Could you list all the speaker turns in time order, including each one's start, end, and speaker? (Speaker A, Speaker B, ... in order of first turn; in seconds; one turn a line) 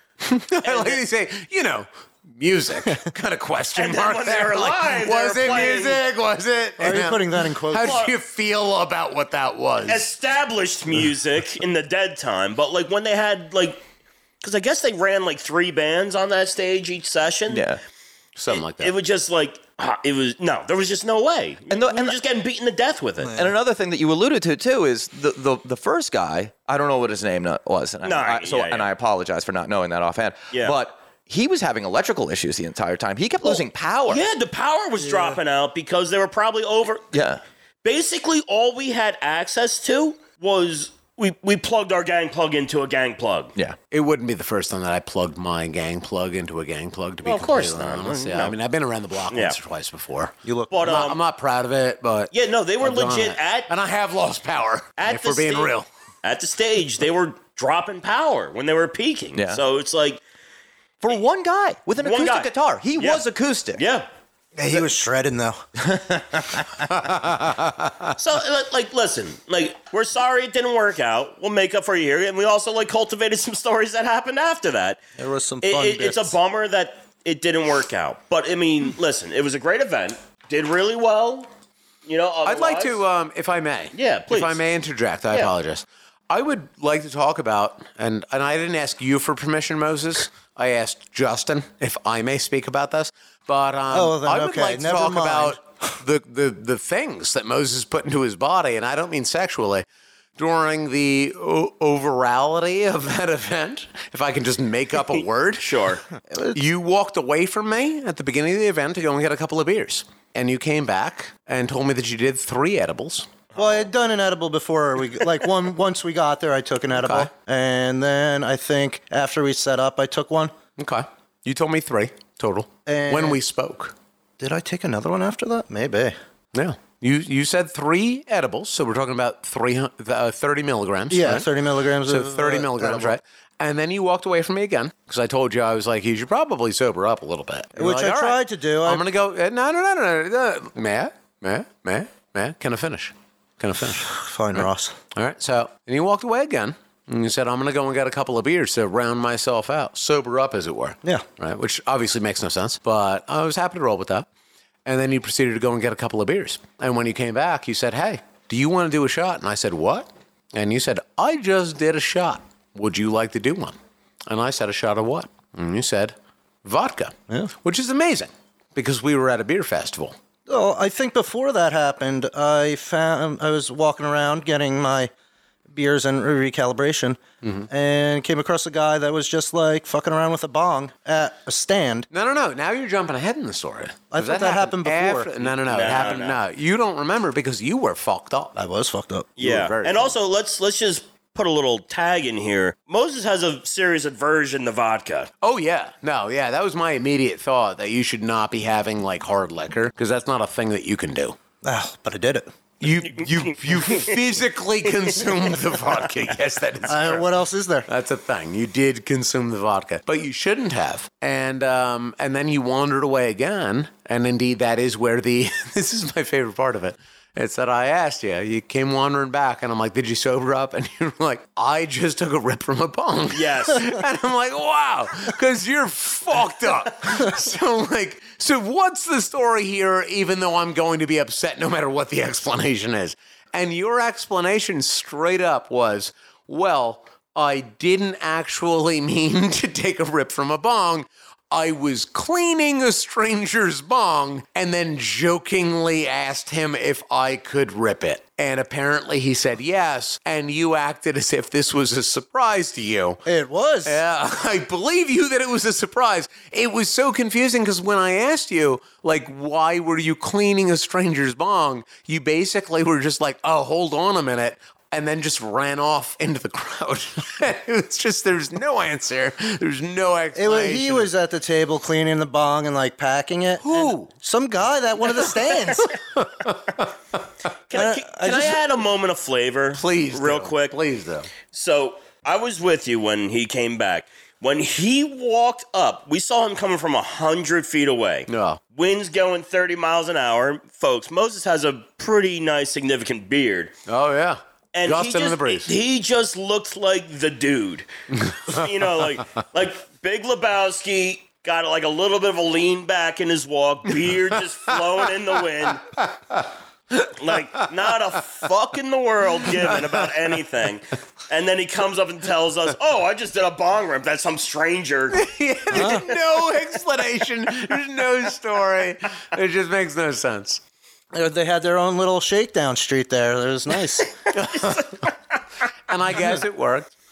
Speaker A: 0.2-10.1
Speaker B: 0.6-1.0
Speaker B: 3.8-6.0
Speaker C: 6.8-8.0
Speaker B: 7.8-8.1
Speaker B: 9.8-13.8
Speaker B: 14.4-17.6
Speaker D: 17.5-17.8
Speaker A: 18.4-18.9
Speaker B: 18.5-23.4
Speaker D: 21.7-22.2
Speaker D: 23.3-34.2
Speaker B: 28.0-28.9
Speaker B: 33.4-37.1
Speaker D: 37.1-37.4
Speaker B: 37.8-43.5
Speaker A: 43.9-55.9
Speaker B: 47.2-48.5
Speaker B: 49.3-49.6
Speaker C: 50.4-50.9
Speaker B: 50.7-51.2
Speaker B: 52.3-53.7
Speaker B: 55.0-60.2
Speaker D: 59.3-59.6
Speaker D: 61.0-63.8
Speaker B: 62.0-63.2
Speaker B: 63.8-64.1
Speaker C: 64.5-65.6
Speaker D: 65.8-66.8
Speaker A: 67.1-68.1
Speaker B: 68.1-75.0
Speaker C: 75.2-76.3
Speaker B: 75.6-81.5
Speaker B: 82.0-83.0
Speaker A: 82.4-99.8
Speaker B: 83.9-84.6
Speaker C: 93.9-95.6
Speaker A: 100.4-105.9
Speaker B: 105.6-106.0
Speaker C: 106.3-106.6
Speaker A: 106.5-113.3
Speaker B: 113.5-113.8
Speaker C: 113.5-120.5
Speaker A: 116.9-117.3
Speaker A: 120.8-123.9
Speaker C: 122.9-123.4
Speaker C: 124.4-126.2
Speaker A: 126.5-131.5
Speaker C: 131.1-133.1
Speaker A: 132.0-154.3
Speaker C: 137.8-139.0
Speaker C: 144.0-144.9
Speaker A: 154.8-163.7
Speaker A: 164.3-170.1
Speaker C: 170.5-175.1
Speaker C: 175.7-177.2
Speaker C: 177.7-182.1
Speaker A: 182.1-188.6
Speaker C: 184.1-185.3
Speaker B: 185.6-186.4
Speaker C: 188.6-189.3
Speaker B: 189.4-195.3
Speaker A: 189.4-190.2
Speaker A: 195.4-201.3
Speaker C: 201.6-202.5
Speaker A: 202.8-207.2
Speaker B: 203.1-204.2
Speaker C: 206.8-207.9
Speaker A: 207.9-253.2
Speaker B: 223.3-223.9
Speaker C: 253.2-254.0
Speaker A: 253.8-271.1
Speaker C: 270.4-276.0
Speaker A: 273.6-274.1
Speaker A: 276.1-276.8
Speaker B: 277.7-280.8
Speaker C: 277.7-278.6
Speaker A: 279.7-281.3
Speaker B: 281.5-293.7
Speaker A: 288.3-288.6
Speaker A: 293.9-295.7
Speaker B: 294.7-297.9
Speaker A: 298.1-298.7
Speaker B: 298.4-305.9
Speaker A: 306.0-307.6
Speaker B: 307.1-316.1
Speaker A: 309.4-310.3
Speaker A: 315.1-320.6
Speaker C: 315.7-316.1
Speaker C: 321.1-324.1
Speaker A: 324.3-325.1
Speaker A: 325.9-326.9